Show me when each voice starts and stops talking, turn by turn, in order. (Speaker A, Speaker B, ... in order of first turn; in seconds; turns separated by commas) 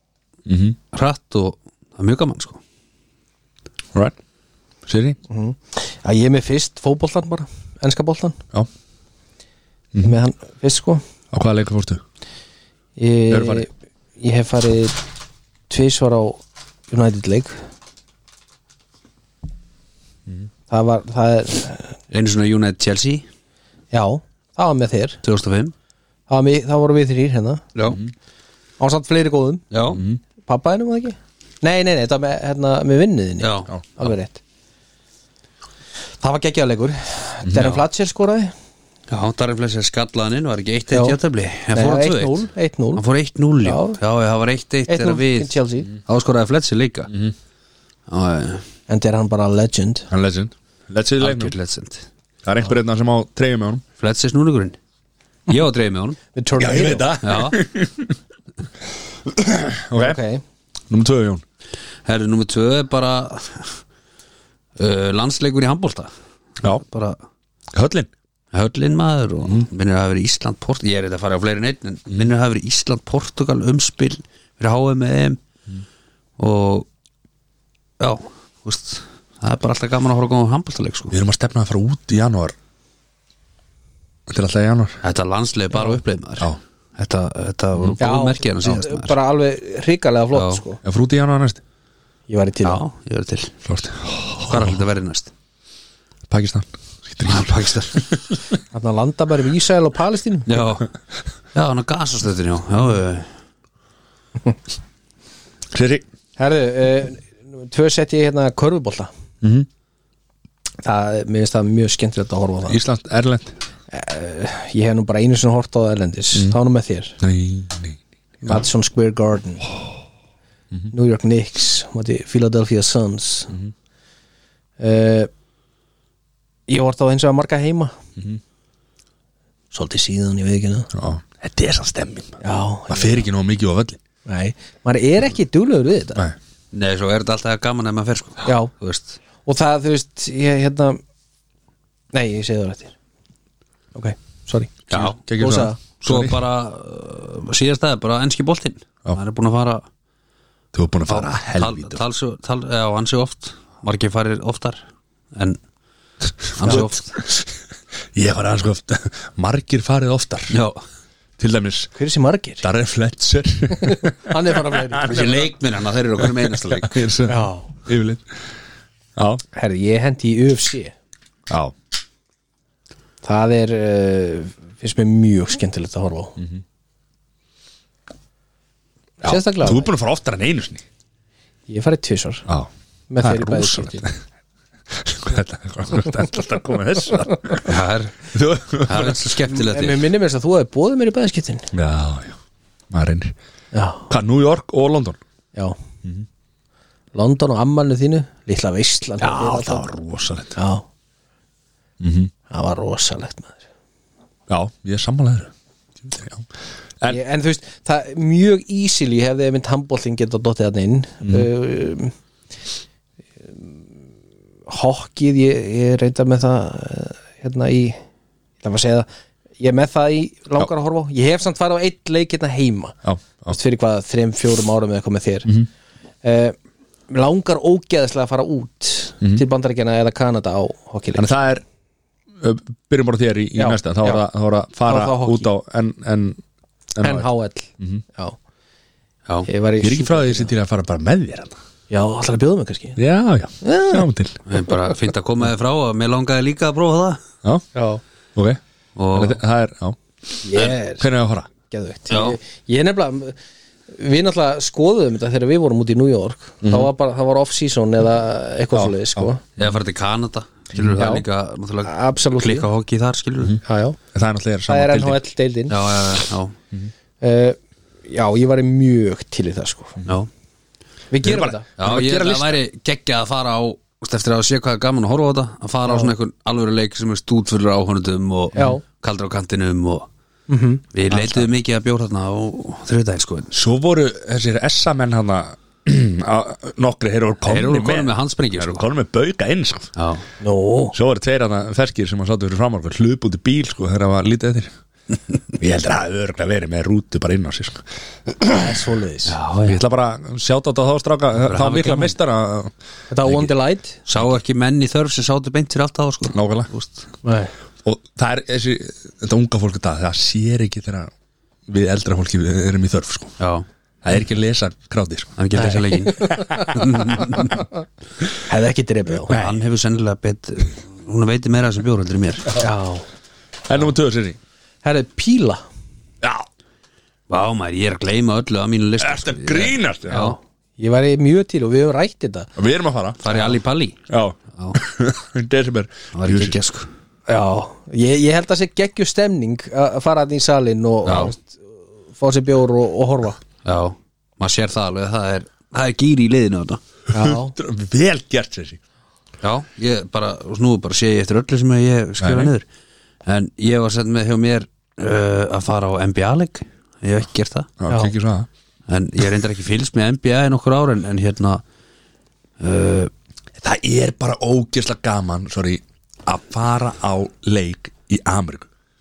Speaker A: 0.5-0.8, Speaker B: 0.9-2.6, Speaker A: 4.9-5.2, Speaker C: 5.3-8.4, Speaker C: 10.0-11.0, Speaker A: 11.3-12.0, Speaker C: 13.0-13.7, Speaker A: 13.3-13.7, Speaker C: 14.2-15.0, Speaker C: 15.7-17.6, Speaker C: 20.7-22.0, Speaker B: 22.1-23.3, Speaker C: 23.9-25.2, Speaker B: 25.2-25.7, Speaker C: 26.3-27.6, Speaker B: 27.8-28.0, Speaker C: 28.8-29.7, Speaker B: 29.7-30.0, Speaker A: 29.9-30.2, Speaker C: 30.5-34.4, Speaker B: 33.4-33.7, Speaker C: 36.2-38.5, Speaker A: 37.4-37.8, Speaker B: 39.1-42.4, Speaker C: 40.9-41.2, Speaker C: 41.7-43.0, Speaker B: 43.0-47.1, Speaker C: 43.6-44.0, Speaker C: 44.9-45.9, Speaker B: 48.1-48.6, Speaker C: 48.9-50.1, Speaker A: 50.1-51.5, Speaker B: 51.2-52.1, Speaker A: 52.4-53.8, Speaker B: 54.0-54.8, Speaker B: 55.5-56.2, Speaker C: 56.3-57.1, Speaker A: 56.6-58.2, Speaker B: 57.2-57.6, Speaker A: 59.3-60.2, Speaker C: 60.0-60.4, Speaker A: 60.9-61.4, Speaker B: 62.1-63.8, Speaker B: 64.8-66.1, Speaker B: 66.7-67.2, Speaker A: 67.7-68.1, Speaker B: 68.5-75.4, Speaker B: 76.4-76.9, Speaker B: 78.0-81.2, Speaker A: 81.1-82.6, Speaker A: 84.3-85.0, Speaker B: 85.0-89.2, Speaker C: 85.7-86.0, Speaker C: 88.0-90.8, Speaker B: 90.3-90.6, Speaker A: 90.8-91.6, Speaker C: 92.3-92.8, Speaker B: 92.6-93.5, Speaker A: 93.7-94.8, Speaker B: 94.5-95.3, Speaker A: 96.3-98.2, Speaker B: 97.3-98.0, Speaker C: 98.7-100.6, Speaker B: 100.5-100.9, Speaker B: 101.5-103.3, Speaker A: 105.7-106.0, Speaker C: 106.4-109.1, Speaker A: 109.4-109.7, Speaker C: 110.8-112.8, Speaker A: 112.7-113.5, Speaker C: 113.9-117.2, Speaker A: 117.2-118.6, Speaker C: 118.4-119.7, Speaker C: 120.9-123.5, Speaker C: 124.8-125.3, Speaker C: 126.7-128.0, Speaker C: 129.7-130.9, Speaker A: 130.9-134.0, Speaker C: 132.4-133.3, Speaker C: 134.3-136.3, Speaker B: 136.7-139.2, Speaker C: 138.4-138.7, Speaker C: 139.4-141.0, Speaker C: 142.1-142.9, Speaker C: 143.9-144.8, Speaker A: 144.9-146.4, Speaker B: 144.9-145.2, Speaker C: 145.3-145.8, Speaker B: 146.0-149.9, Speaker A: 150.7-152.0, Speaker B: 151.1-154.8, Speaker B: 156.6-157.2, Speaker A: 156.6-157.5, Speaker A: 158.1-160.6, Speaker B: 160.5-160.8, Speaker A: 161.4-161.9, Speaker C: 162.0-162.6, Speaker A: 162.6-165.4, Speaker C: 163.8-165.5, Speaker B: 165.0-167.0, Speaker A: 166.2-168.2, Speaker C: 167.3-167.7, Speaker A: 169.2-169.4, Speaker C: 169.5-170.9, Speaker A: 171.5-171.7, Speaker C: 173.2-176.4, Speaker C: 179.2-179.9, Speaker A: 179.2-180.8, Speaker C: 181.7-182.5, Speaker A: 182.5-184.2, Speaker C: 183.1-184.1, Speaker A: 184.9-187.8, Speaker B: 187.6-188.3, Speaker A: 188.3-189.3, Speaker B: 188.8-190.1, Speaker C: 189.5-191.7, Speaker A: 191.7-192.4, Speaker A: 192.9-193.3, Speaker C: 193.7-194.1, Speaker A: 194.1-195.2, Speaker C: 197.2-199.9, Speaker A: 199.2-200.6, Speaker C: 200.6-200.8, Speaker A: 202.0-202.3, Speaker C: 202.5-203.6, Speaker A: 204.5-205.5, Speaker A: 206.0-206.5, Speaker C: 207.1-212.1, Speaker A: 211.2-211.5, Speaker C: 214.7-218.0, Speaker C: 218.6-219.1, Speaker C: 219.6-223.0, Speaker A: 223.0-223.6, Speaker C: 223.5-225.5, Speaker C: 226.2-226.6, Speaker C: 227.1-231.3, Speaker A: 231.2-231.6, Speaker A: 232.4-236.4, Speaker C: 233.6-234.2, Speaker C: 234.9-235.5, Speaker A: 237.0-237.3, Speaker C: 237.0-238.4, Speaker C: 239.5-240.5, Speaker A: 239.8-241.6, Speaker C: 241.9-243.0, Speaker A: 243.0-244.4, Speaker C: 243.6-244.1, Speaker B: 244.5-247.2, Speaker C: 247.8-248.0, Speaker B: 249.0-249.4, Speaker A: 249.1-250.0, Speaker C: 250.4-251.1, Speaker A: 250.5-251.5, Speaker C: 251.7-253.4, Speaker B: 252.1-252.4, Speaker C: 253.9-259.4, Speaker A: 256.6-256.9, Speaker A: 258.7-259.3, Speaker B: 259.6-263.6, Speaker A: 260.8-261.0, Speaker C: 260.9-261.2, Speaker C: 261.8-262.7, Speaker C: 263.6-264.0, Speaker A: 264.1-265.2, Speaker C: 264.7-265.8, Speaker B: 265.7-266.6, Speaker C: 267.2-270.0, Speaker C: 271.1-271.7, Speaker A: 271.2-272.6, Speaker B: 271.8-280.1, Speaker C: 275.9-276.1, Speaker C: 278.6-278.8, Speaker C: 280.5-281.4, Speaker B: 280.9-283.5, Speaker A: 283.5-289.9, Speaker B: 287.5-288.9, Speaker B: 290.0-290.2, Speaker C: 290.4-290.9, Speaker A: 290.9-294.7, Speaker A: 295.6-298.8, Speaker C: 298.5-299.4, Speaker B: 299.3-299.8, Speaker A: 299.6-302.7, Speaker B: 301.4-302.1, Speaker C: 303.1-304.0, Speaker B: 304.1-307.1, Speaker A: 306.3-306.7, Speaker C: 307.2-307.5, Speaker A: 307.8-311.1, Speaker A: 311.7-313.4, Speaker B: 313.4-313.7, Speaker A: 314.0-315.4, Speaker B: 315.4-317.6, Speaker C: 315.6-317.6, Speaker A: 316.3-317.2, Speaker C: 318.5-319.4, Speaker A: 319.2-319.6, Speaker B: 319.3-322.6, Speaker C: 322.6-323.1, Speaker A: 323.7-324.4, Speaker C: 324.8-325.6, Speaker B: 327.3-330.4, Speaker A: 329.0-330.3, Speaker C: 330.1-332.5, Speaker A: 332.6-333.2, Speaker B: 333.2-334.0, Speaker C: 333.3-333.6, Speaker A: 334.1-336.6, Speaker B: 336.1-336.9, Speaker C: 337.3-343.4, Speaker B: 341.1-341.3, Speaker B: 343.6-346.8, Speaker C: 347.1-347.6, Speaker A: 347.1-348.8, Speaker B: 349.4-352.6, Speaker A: 352.2-352.5, Speaker B: 353.3-357.7, Speaker A: 357.8-358.5, Speaker B: 358.9-361.6, Speaker B: 362.6-363.1, Speaker A: 363.6-368.7